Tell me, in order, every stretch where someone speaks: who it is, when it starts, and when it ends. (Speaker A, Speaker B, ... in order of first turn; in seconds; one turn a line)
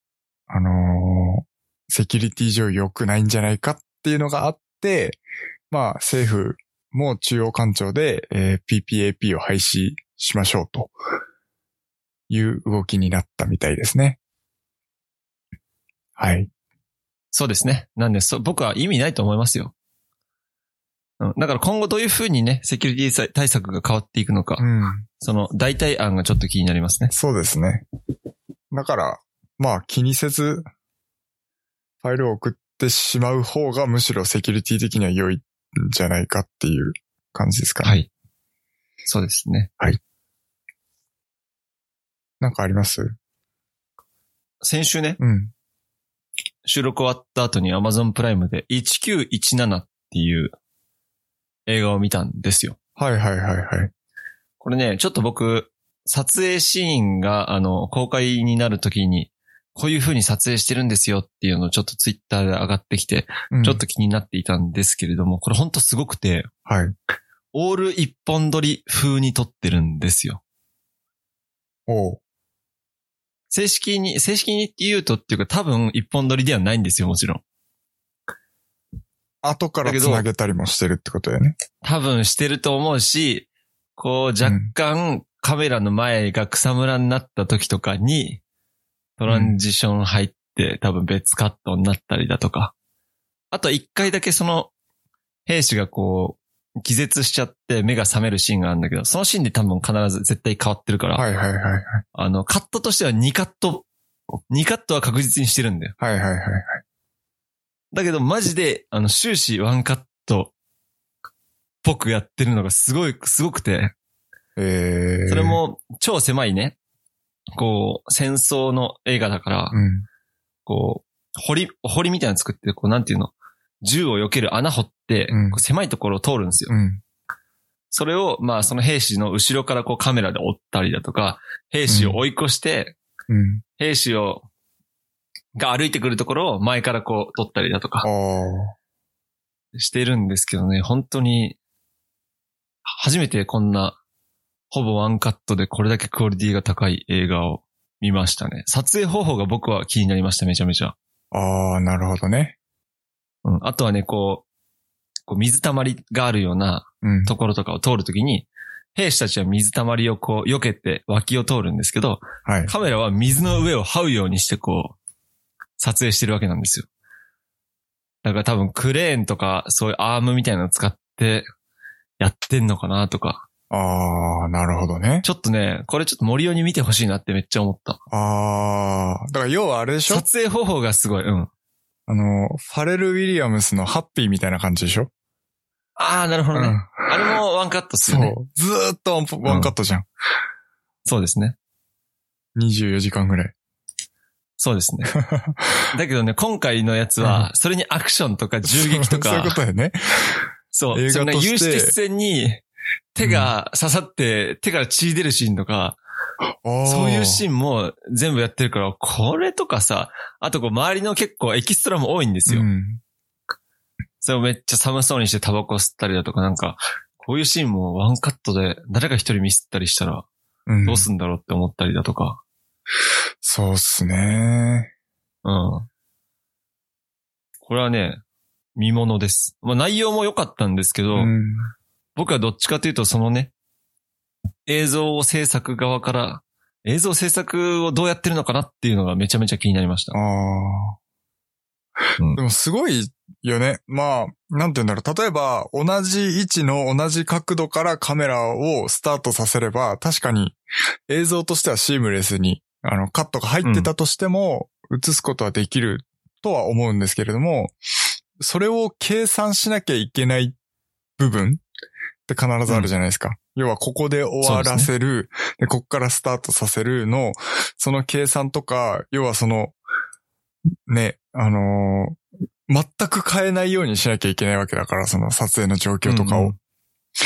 Speaker A: 0.5-5.2
Speaker A: 5.7-10.9
Speaker A: 12.3-14.2
Speaker A: 16.2-16.5
Speaker B: 17.3-19.7
Speaker B: 21.2-24.7
Speaker A: 24.6-25.1
Speaker B: 25.2-27.1
Speaker A: 27.1-27.9
Speaker A: 28.7-30.7
Speaker A: 32.0-38.0
Speaker B: 37.8-38.1
Speaker B: 39.1-39.7
Speaker A: 42.4-43.2
Speaker B: 44.6-45.2
Speaker A: 45.2-45.5
Speaker B: 46.6-50.5
Speaker B: 51.7-52.8
Speaker A: 53.0-53.9
Speaker B: 54.6-66.5
Speaker A: 63.5-63.8
Speaker A: 66.7-66.9
Speaker B: 67.5-70.4
Speaker A: 71.9-72.2
Speaker B: 73.5-77.4
Speaker A: 79.4-81.6
Speaker B: 79.8-80.2
Speaker B: 81.8-88.4
Speaker A: 84.4-84.7
Speaker B: 89.2-92.7
Speaker A: 89.3-89.6
Speaker B: 93.5-94.7
Speaker B: 95.5-101.2
Speaker A: 101.2-102.0
Speaker B: 102.1-103.8
Speaker B: 104.5-105.9
Speaker A: 106.0-106.8
Speaker B: 107.9-110.5
Speaker B: 111.8-113.9
Speaker A: 114.6-115.6
Speaker B: 115.3-116.8
Speaker B: 117.5-119.8
Speaker A: 119.7-120.1
Speaker B: 120.7-126.7
Speaker A: 125.3-125.6
Speaker A: 126.7-127.0
Speaker B: 127.9-133.0
Speaker A: 131.9-132.2
Speaker A: 133.3-133.6
Speaker B: 133.8-134.5
Speaker B: 135.6-138.1
Speaker A: 138.0-138.8
Speaker B: 139.8-141.6
Speaker B: 142.9-144.0
Speaker B: 144.7-150.9
Speaker A: 151.3-152.6
Speaker B: 153.4-154.4
Speaker B: 155.3-165.0
Speaker A: 157.0-157.3
Speaker A: 162.5-162.7
Speaker B: 165.8-166.9
Speaker B: 168.2-171.5
Speaker B: 172.2-173.4
Speaker A: 173.7-175.3
Speaker B: 175.2-178.0
Speaker A: 178.1-180.3
Speaker B: 180.1-181.5
Speaker A: 182.1-185.1
Speaker B: 186.0-188.3
Speaker A: 186.5-187.3
Speaker A: 188.1-190.1
Speaker B: 189.4-189.7
Speaker B: 191.1-191.6
Speaker A: 192.6-193.5
Speaker B: 194.6-195.2
Speaker A: 195.1-195.9
Speaker B: 195.9-199.6
Speaker A: 197.2-197.5
Speaker A: 198.7-201.9
Speaker B: 200.7-202.6
Speaker B: 203.2-206.0
Speaker A: 203.2-203.5
Speaker A: 206.6-207.4
Speaker B: 206.8-212.7
Speaker A: 212.5-213.0
Speaker B: 214.2-220.3
Speaker A: 220.7-221.1
Speaker B: 220.8-222.4
Speaker A: 223.4-224.9
Speaker B: 225.4-225.9
Speaker B: 227.7-228.2
Speaker B: 228.8-231.3
Speaker A: 231.2-231.7
Speaker B: 232.2-233.5
Speaker B: 234.7-240.2
Speaker A: 240.1-241.0
Speaker A: 242.3-250.6
Speaker A: 251.1-257.8
Speaker B: 253.6-253.9
Speaker A: 258.4-260.6
Speaker A: 261.2-261.6
Speaker A: 262.3-269.8
Speaker B: 264.4-264.9
Speaker A: 270.9-276.5
Speaker B: 276.0-276.6